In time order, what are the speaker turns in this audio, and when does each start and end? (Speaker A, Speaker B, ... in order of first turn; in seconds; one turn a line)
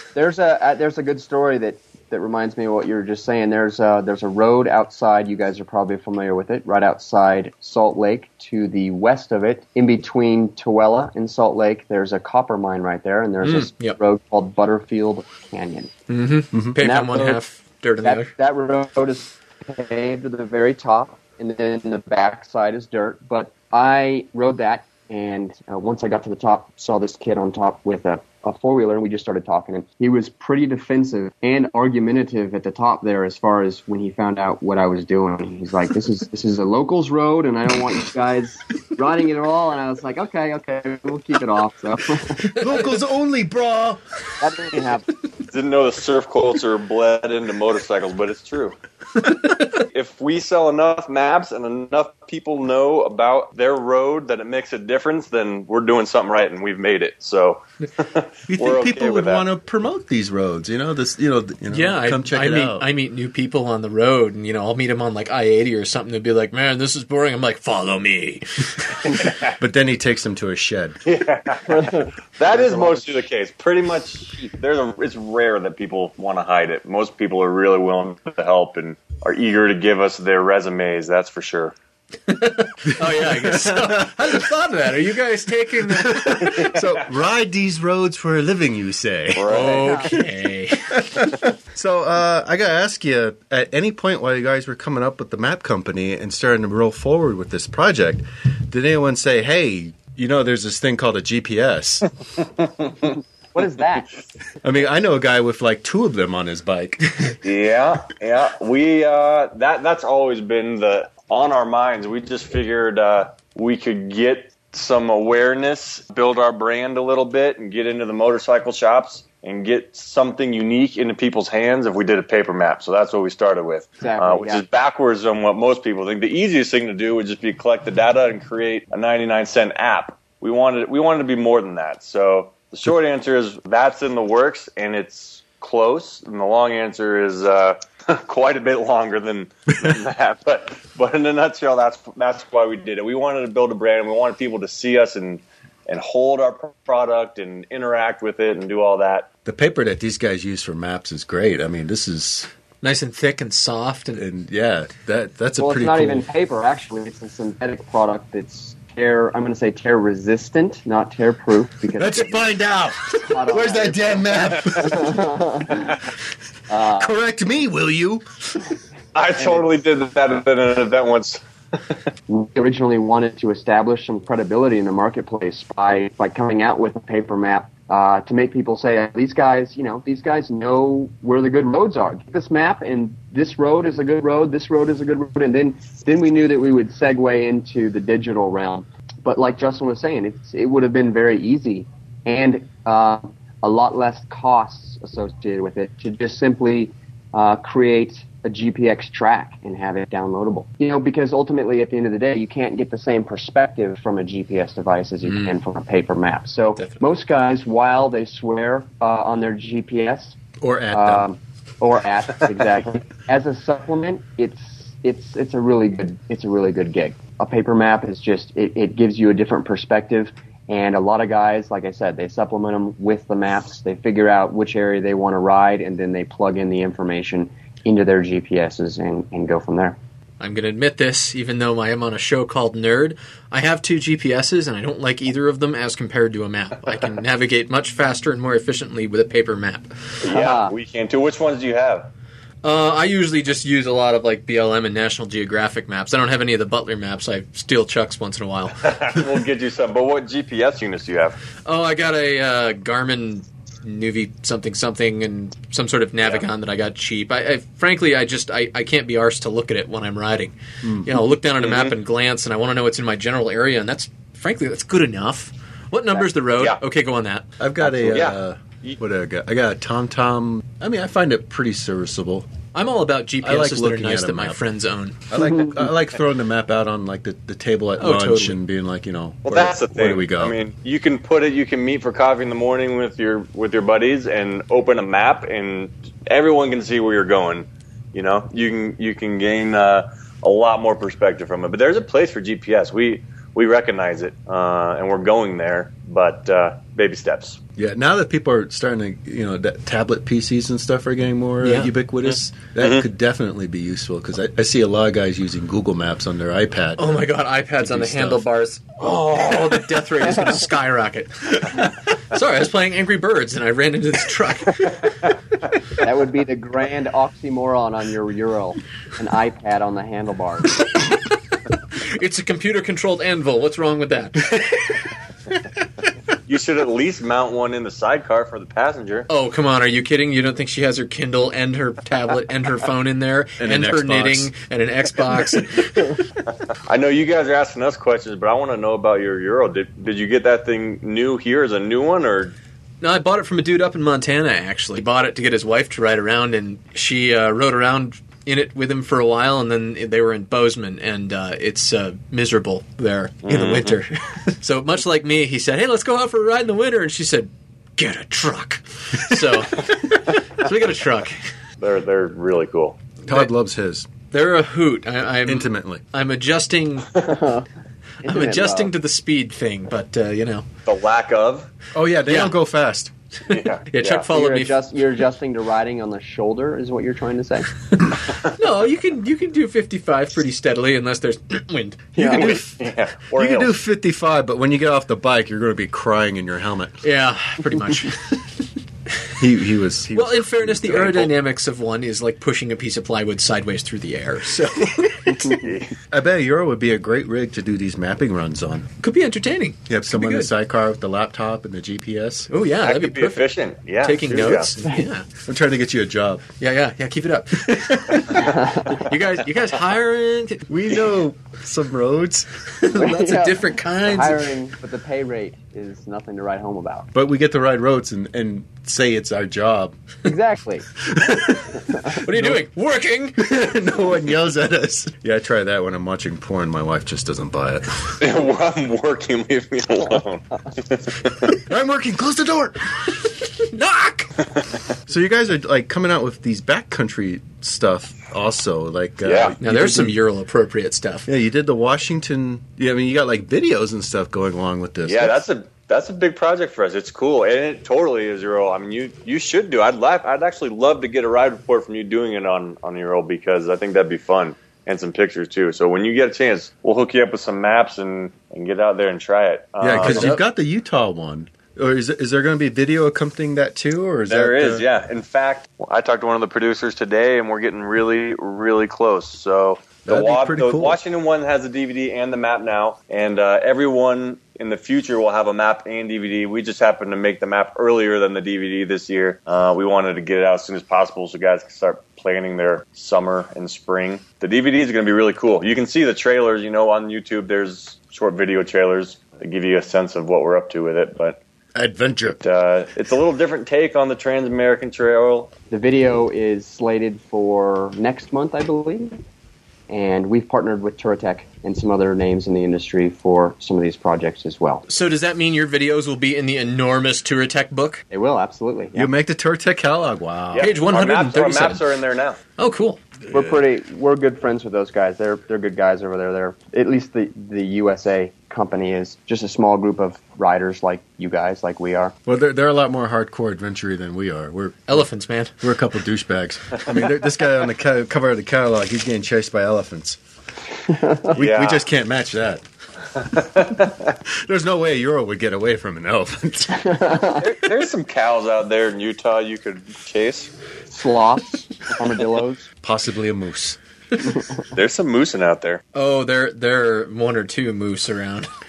Speaker A: 0.1-15.9
Speaker B: 13.4-14.0
Speaker B: 16.1-18.3
Speaker A: 16.8-17.4
Speaker A: 18.0-42.5
Speaker C: 42.4-44.0
Speaker A: 44.4-45.1
Speaker D: 45.4-59.4
Speaker C: 58.5-62.9
Speaker B: 61.7-69.2
Speaker D: 69.2-69.5
Speaker C: 69.5-71.0
Speaker D: 71.0-81.7
Speaker A: 71.8-73.2
Speaker B: 82.3-86.7
Speaker C: 82.9-84.4
Speaker C: 85.9-90.2
Speaker D: 89.3-90.1
Speaker B: 89.5-91.0
Speaker A: 89.7-90.1
Speaker C: 90.9-102.1
Speaker A: 103.5-104.1
Speaker C: 104.6-107.3
Speaker D: 107.4-149.3
Speaker A: 124.0-124.6
Speaker C: 149.4-152.5
Speaker B: 152.8-154.2
Speaker C: 154.1-156.3
Speaker A: 155.6-162.4
Speaker C: 161.9-165.4
Speaker A: 163.2-166.0
Speaker A: 166.7-167.1
Speaker C: 166.9-168.2
Speaker D: 169.1-172.0
Speaker A: 172.3-210.4
Speaker B: 205.3-205.5
Speaker B: 206.8-207.0
Speaker C: 210.6-211.2
Speaker A: 210.9-230.0
Speaker B: 230.4-239.9
Speaker D: 240.2-242.1
Speaker A: 240.3-240.7
Speaker B: 242.6-248.9
Speaker D: 248.8-251.4
Speaker B: 251.6-267.5
Speaker C: 260.8-261.2
Speaker D: 261.6-261.9
Speaker C: 267.6-272.5
Speaker D: 267.8-269.0
Speaker B: 272.7-275.2
Speaker C: 273.4-274.6
Speaker C: 275.3-280.6
Speaker B: 278.0-278.6
Speaker D: 279.4-297.6
Speaker C: 297.8-307.2
Speaker B: 301.6-301.9
Speaker B: 307.0-315.3
Speaker C: 307.8-308.5
Speaker A: 316.0-320.8
Speaker B: 321.9-324.9
Speaker D: 326.5-329.3
Speaker B: 329.3-336.1
Speaker C: 333.6-334.5
Speaker D: 336.9-342.6
Speaker B: 343.0-361.4
Speaker D: 353.4-354.0
Speaker D: 361.8-363.0
Speaker C: 363.3-364.1
Speaker B: 364.3-367.1
Speaker C: 365.4-366.0
Speaker A: 367.1-367.6
Speaker A: 368.2-368.9
Speaker B: 368.2-370.7
Speaker D: 370.9-371.7
Speaker C: 371.9-373.1
Speaker B: 372.3-372.6
Speaker D: 373.5-374.3
Speaker B: 373.5-374.8
Speaker A: 374.3-377.7
Speaker B: 378.4-382.2
Speaker A: 382.2-382.6
Speaker C: 382.2-387.0
Speaker D: 382.3-383.7
Speaker B: 387.0-388.4
Speaker C: 389.4-391.3
Speaker B: 390.1-394.8
Speaker C: 394.5-395.4
Speaker D: 395.4-395.9
Speaker C: 396.1-398.9
Speaker B: 399.0-400.5
Speaker C: 399.9-402.5
Speaker B: 402.5-405.3
Speaker D: 402.8-404.7
Speaker C: 405.4-406.4
Speaker B: 406.6-410.7
Speaker C: 407.7-408.5
Speaker C: 410.7-412.5
Speaker B: 412.8-414.5
Speaker A: 412.9-417.1
Speaker C: 417.1-419.9
Speaker A: 420.2-420.9
Speaker C: 421.1-422.6
Speaker A: 421.8-422.1
Speaker B: 422.1-423.5
Speaker C: 423.4-428.2
Speaker D: 428.2-431.5
Speaker C: 431.6-432.8
Speaker B: 433.6-434.3
Speaker C: 435.1-440.1
Speaker D: 439.2-439.6
Speaker B: 439.6-441.3
Speaker C: 441.3-445.4
Speaker D: 445.0-460.4
Speaker C: 459.8-464.9
Speaker B: 460.0-460.4
Speaker D: 464.3-491.4
Speaker C: 470.1-471.0
Speaker C: 491.7-492.4
Speaker D: 492.4-495.5
Speaker A: 495.7-499.2
Speaker A: 499.9-504.8
Speaker B: 504.9-508.0
Speaker A: 508.1-509.1
Speaker C: 508.9-510.7
Speaker D: 510.5-512.4
Speaker B: 510.6-511.9
Speaker B: 512.6-513.0
Speaker C: 513.3-513.6
Speaker A: 513.3-522.1
Speaker C: 522.2-525.1
Speaker B: 524.9-525.6
Speaker C: 525.6-530.2
Speaker A: 530.9-531.3
Speaker C: 531.3-532.6
Speaker D: 531.3-531.8
Speaker D: 533.2-533.9
Speaker C: 534.3-537.1
Speaker A: 536.7-537.4
Speaker D: 537.4-540.5
Speaker A: 540.9-542.7
Speaker C: 542.8-543.8
Speaker D: 544.7-545.8
Speaker B: 545.9-548.5